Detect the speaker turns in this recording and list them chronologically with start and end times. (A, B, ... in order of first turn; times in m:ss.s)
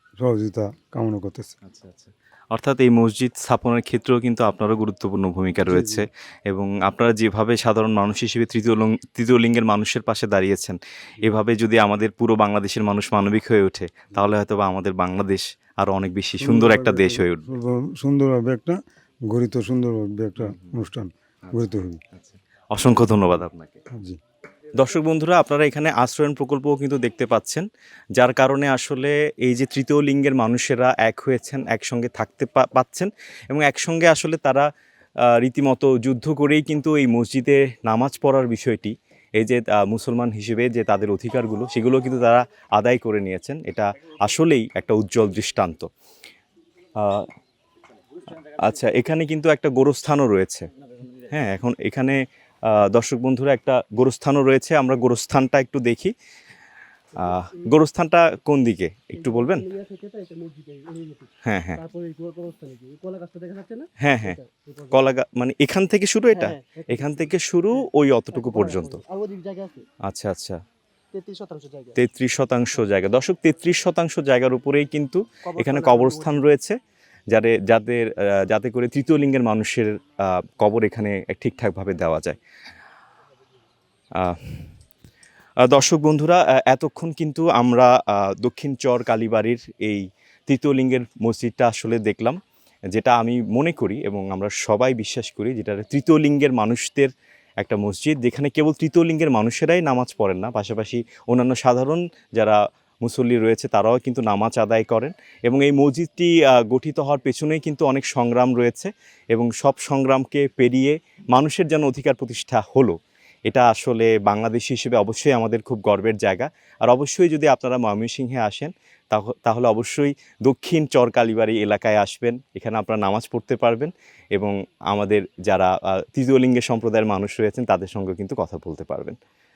0:00.2-0:01.5 A
0:01.6-0:17.4 B
0:05.6-0:06.0 A
0:16.4-0:18.8 A
0:19.3-0:22.0 A
0:20.4-0:20.8 B
0:21.4-0:23.8 B
0:24.7-0:27.6 B
0:28.2-0:34.7 B
0:35.3-0:45.9 B
0:47.0-0:47.3 B
0:48.5-0:50.7 B
0:51.3-0:56.1 B
0:57.2-0:59.6 B
0:59.2-1:05.0 C
1:01.4-1:01.8 B
1:04.0-1:04.4 B
1:04.9-1:09.0 B
1:06.3-1:07.3 C
1:08.3-1:09.8 C
1:10.1-1:10.6 B
1:11.1-1:12.0 C
1:12.0-1:16.8 B
1:15.4-1:16.4 C
1:17.3-1:22.4 B
1:24.2-1:24.7 B
1:25.6-1:32.4 B
1:32.9-1:52.9 B
1:53.4-2:09.2 B